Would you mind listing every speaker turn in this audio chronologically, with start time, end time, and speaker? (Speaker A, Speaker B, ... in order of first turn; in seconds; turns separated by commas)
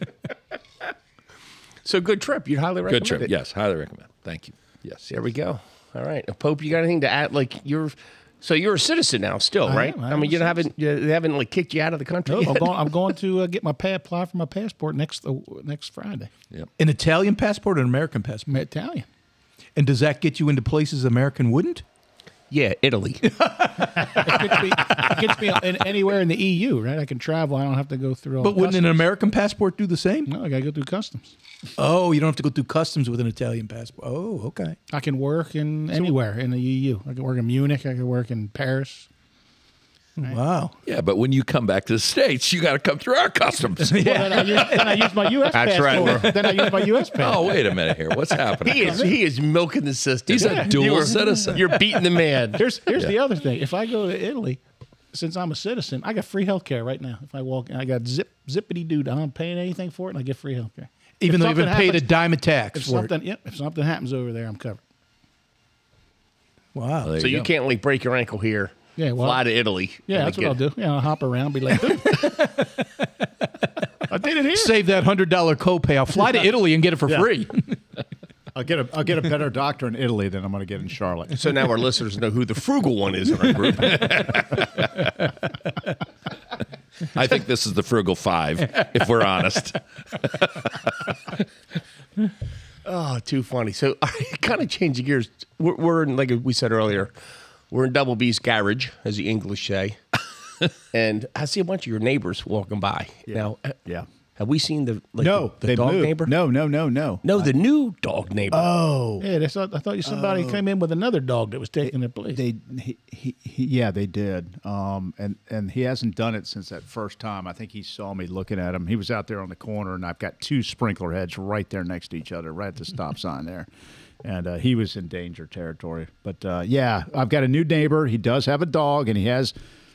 Speaker A: 1.9-3.3, Speaker B: 2.9-5.1, Speaker A: 5.1-12.7, Speaker C: 9.7-10.6, Speaker C: 12.3-16.3, Speaker D: 16.8-18.6, Speaker C: 18.5-19.1, Speaker D: 19.8-21.8, Speaker A: 22.5-23.4, Speaker D: 23.2-24.7, Speaker C: 24.0-29.0, Speaker D: 28.4-30.3, Speaker C: 30.3-31.3, Speaker D: 31.8-34.8, Speaker C: 34.9-39.1, Speaker D: 40.2-40.7, Speaker B: 40.9-45.0, Speaker C: 43.9-47.7, Speaker D: 43.9-45.0, Speaker A: 45.5-46.4, Speaker B: 46.3-49.1, Speaker A: 48.6-52.6, Speaker B: 50.3-51.8, Speaker C: 50.4-50.7, Speaker C: 52.6-54.6, Speaker C: 55.1-62.1, Speaker D: 61.2-63.1, Speaker C: 62.7-64.8, Speaker D: 66.8-67.2, Speaker B: 67.0-67.5, Speaker A: 67.2-70.6, Speaker C: 69.0-69.5, Speaker C: 70.1-72.5, Speaker D: 72.0-72.8, Speaker C: 74.1-74.8, Speaker D: 74.5-77.8, Speaker E: 78.5-81.5, Speaker A: 81.3-84.5, Speaker B: 83.5-85.1, Speaker B: 87.1-91.1, Speaker A: 92.8-97.1, Speaker A: 97.7-100.0, Speaker A: 100.9-103.8, Speaker E: 103.3-104.1, Speaker A: 104.4-106.3, Speaker E: 105.2-107.5, Speaker A: 107.2-108.8, Speaker E: 108.5-109.3, Speaker C: 109.2-112.4, Speaker E: 110.0-110.6, Speaker E: 111.8-123.7, Speaker E: 124.2-129.5